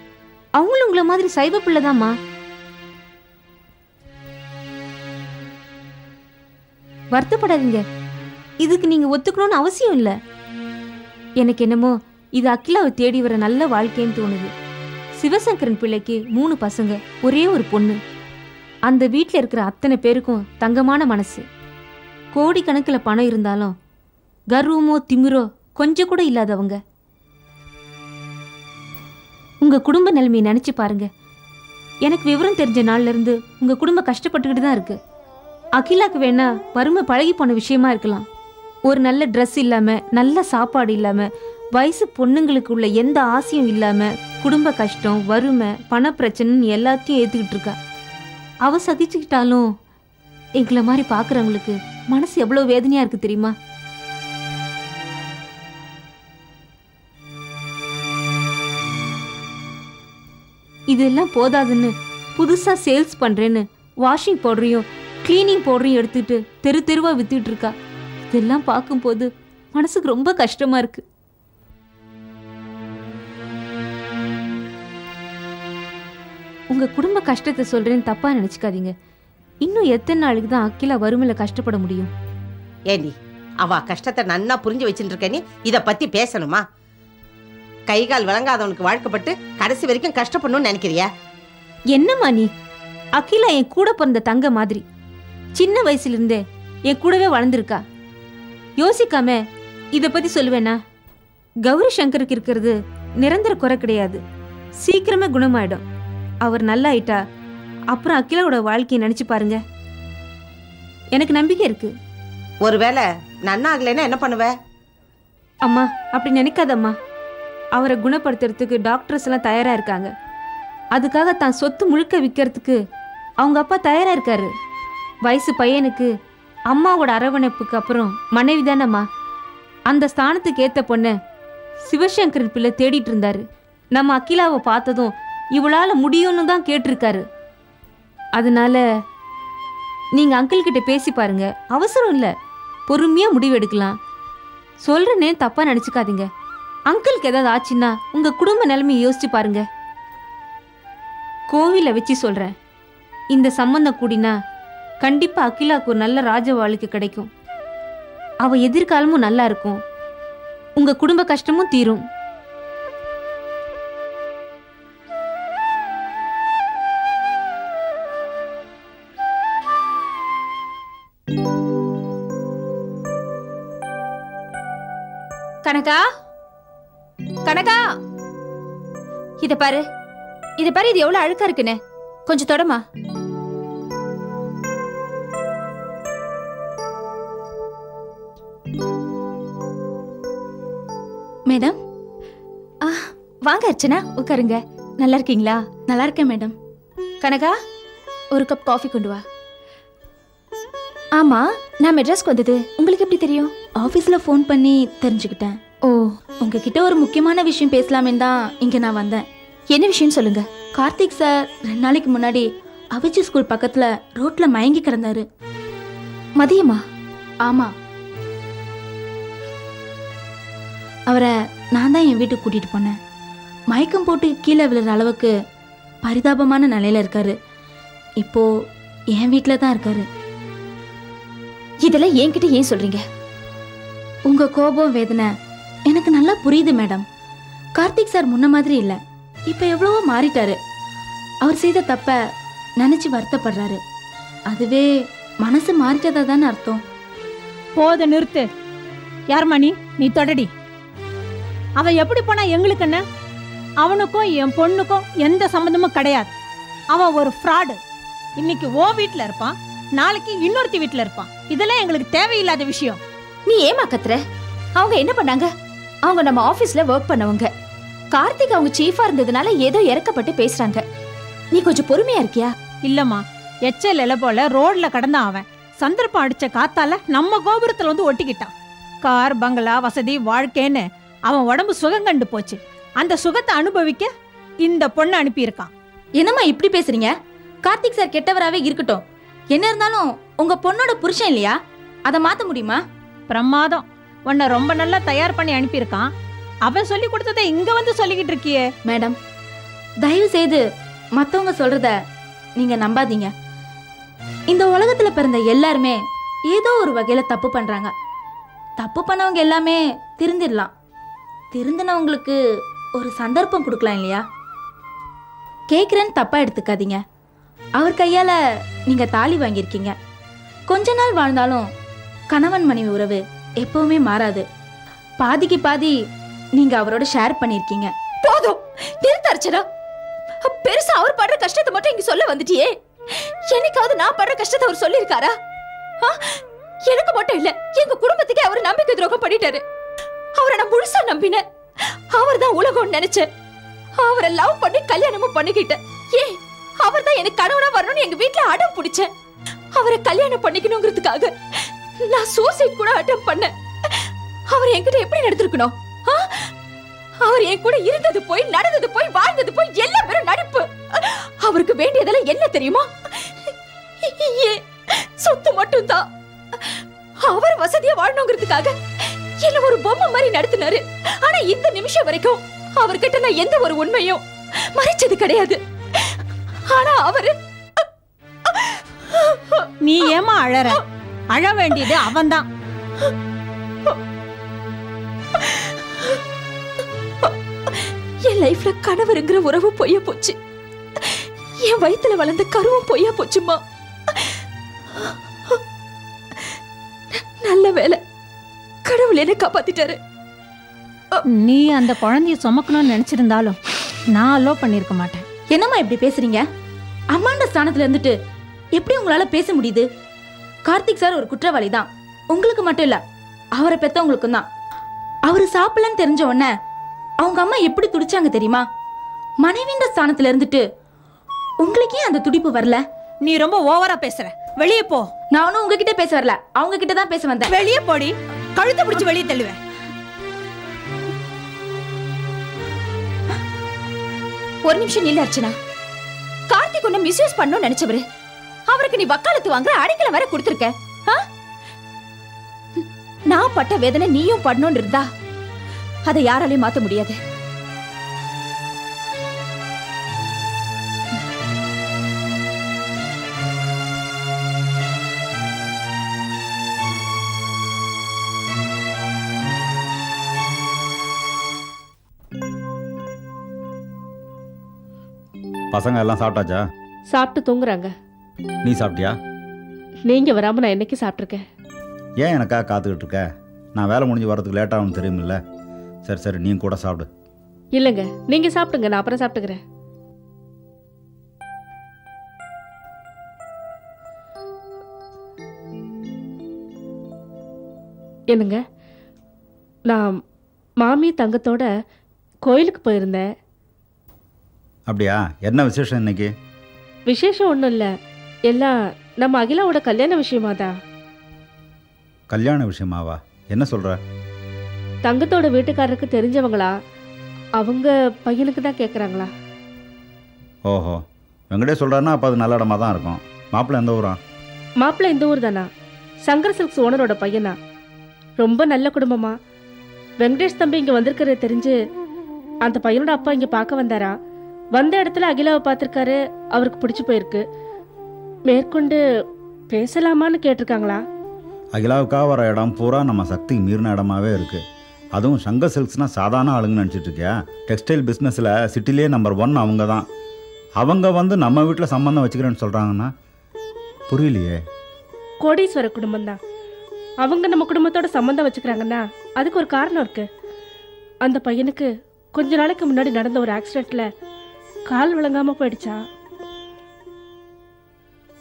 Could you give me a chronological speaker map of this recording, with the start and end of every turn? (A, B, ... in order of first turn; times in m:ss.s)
0:00.6-0:02.1 A
0:07.1-0:07.8 A
0:08.6-0:10.1 A
0:11.4-0:14.5 A
0:15.2-0:18.0 A
0:18.9-0:21.4 A
0:22.3-0:23.7 A
0:24.5-0:26.8 A
0:29.6-0:31.1 A
0:32.0-0:35.0 A
0:35.8-0:38.2 A
0:38.9-0:47.7 A
0:48.6-0:49.7 A
0:50.6-0:53.5 A
1:00.9-1:07.7 A
1:08.3-1:11.0 A
1:16.7-1:18.9 A
1:19.6-1:22.1 A
1:22.9-1:26.6 B
1:27.9-1:31.1 B
1:31.9-1:32.5 A
1:33.2-1:34.8 A
1:35.6-1:37.8 A
1:38.8-1:39.4 A
1:39.9-1:40.8 A
1:41.6-1:44.2 A
1:44.8-1:45.8 A
1:46.4-1:47.2 A
1:47.9-1:49.6 A
1:51.1-1:51.9 A
1:52.6-1:54.5 B
1:55.6-1:56.9 A
1:57.8-2:00.1 A
2:00.9-2:02.8 A
2:03.4-2:04.5 A
2:05.2-2:06.1 A
2:06.7-2:09.0 A
2:09.9-2:11.1 A
2:11.9-2:17.2 A
2:18.4-2:18.8 A
2:20.1-2:22.3 A
2:22.9-2:24.0 A
2:24.8-2:26.3 A
2:26.9-2:29.6 A
2:31.5-2:32.5 A
2:33.3-2:34.3 A
2:35.0-2:37.3 A
2:38.4-2:39.8 A
2:40.8-2:42.0 A
2:55.6-2:56.0 C
2:57.4-2:57.8 C
2:59.4-2:59.8 C
3:00.6-3:02.8 C
3:11.5-3:11.7 D
3:12.8-3:15.6 C
3:15.9-3:16.5 D
3:17.2-3:17.5 C
3:18.3-3:19.2 C
3:21.2-3:23.5 C
3:23.8-3:25.6 D
3:26.4-3:29.2 D
3:29.7-3:30.4 C
3:30.7-3:35.2 D
3:36.4-3:36.8 C
3:41.1-3:42.9 D
3:43.7-3:45.3 D
3:46.0-3:47.3 D
3:49.1-3:50.0 D
3:51.8-3:53.0 C
3:54.3-3:55.3 D
3:55.9-3:57.0 D
3:57.8-4:00.6 D
4:01.4-4:02.2 D
4:02.8-4:03.8 D
4:04.5-4:04.8 D
4:05.4-4:06.8 D
4:07.8-4:08.4 E
4:09.3-4:10.5 E
4:11.8-4:13.0 E
4:13.8-4:16.3 E
4:16.9-4:17.8 E
4:18.4-4:23.0 E
4:23.4-4:24.2 C
4:24.7-4:25.5 C
4:26.0-4:27.5 C
4:28.1-4:30.8 C
4:31.5-4:32.5 C
4:32.8-4:38.5 E
4:39.0-4:44.1 E
4:44.6-4:45.7 E
4:46.2-4:52.8 D
4:53.3-4:56.1 E
4:56.6-4:58.7 E
4:58.8-4:59.2 D
5:00.0-5:00.6 D
5:01.2-5:01.9 D
5:02.6-5:03.3 D
5:04.5-5:07.9 D
5:08.8-5:10.7 D
5:11.5-5:12.4 D
5:13.0-5:14.2 D
5:15.7-5:17.0 D
5:17.8-5:18.3 D
5:18.9-5:19.9 D
5:20.7-5:21.7 D
5:22.3-5:24.4 D
5:25.2-5:25.9 D
5:26.6-5:27.9 D
5:28.2-5:29.6 C
5:30.4-5:32.8 C
5:33.5-5:35.3 C
5:36.8-5:39.6 C
5:40.3-5:41.4 C
5:42.1-5:43.3 C
5:44.0-5:49.1 C
5:49.7-5:51.3 C
5:52.0-5:53.5 C
5:54.5-5:56.5 C
5:57.2-6:02.9 C
6:04.0-6:04.6 C
6:05.2-6:06.0 C
6:07.2-6:08.8 C
6:09.4-6:14.2 C
6:14.7-6:15.6 C
6:16.7-6:17.3 C
6:19.3-6:20.1 C
6:19.8-6:20.8 E
6:21.3-6:22.4 E
6:28.2-6:30.4 C
6:31.0-6:33.6 C
6:37.1-6:38.0 C
6:38.8-6:40.0 C
6:41.3-6:43.6 E
6:44.1-6:45.2 E
6:45.5-6:46.4 D
6:47.1-6:48.1 D
6:48.8-6:49.8 D
6:50.6-6:53.0 D
6:53.6-6:54.4 D
6:55.2-6:56.5 D
6:57.2-6:58.6 D
6:59.4-7:00.6 D
7:01.6-7:02.8 D
7:03.2-7:05.1 E
7:05.3-7:07.5 D
7:07.4-7:09.6 E
7:14.6-7:15.5 C
7:16.5-7:18.0 C
7:18.7-7:21.2 C
7:23.3-7:25.0 C
7:26.0-7:27.2 C
7:45.7-7:46.6 F
7:47.1-7:47.9 G
7:48.6-7:49.1 F
7:50.1-7:51.4 G
7:52.2-7:53.2 F
7:53.7-7:55.4 F
7:56.0-7:57.1 F
7:57.7-7:59.6 G
8:08.3-8:08.6 G
8:10.8-8:11.7 G
8:12.4-8:13.2 G
8:14.9-8:16.3 F
8:17.1-8:17.9 G
8:18.5-8:20.7 G
8:22.3-8:24.0 F
8:25.0-8:26.7 G
8:27.6-8:29.3 G
8:30.7-8:31.0 F
8:31.5-8:34.2 F
8:34.8-8:35.6 G
8:36.2-8:37.5 G
8:38.4-8:39.3 G
8:40.2-8:41.7 G
8:42.6-8:44.1 G
8:44.8-8:47.4 G
8:48.5-8:49.0 G
8:49.7-8:51.0 G
8:51.7-8:54.6 F
8:55.1-9:00.0 F
9:00.8-9:03.1 F
9:04.1-9:04.6 F
9:05.4-9:06.4 G
9:07.2-9:10.2 G
9:11.2-9:14.0 G
9:14.9-9:16.0 G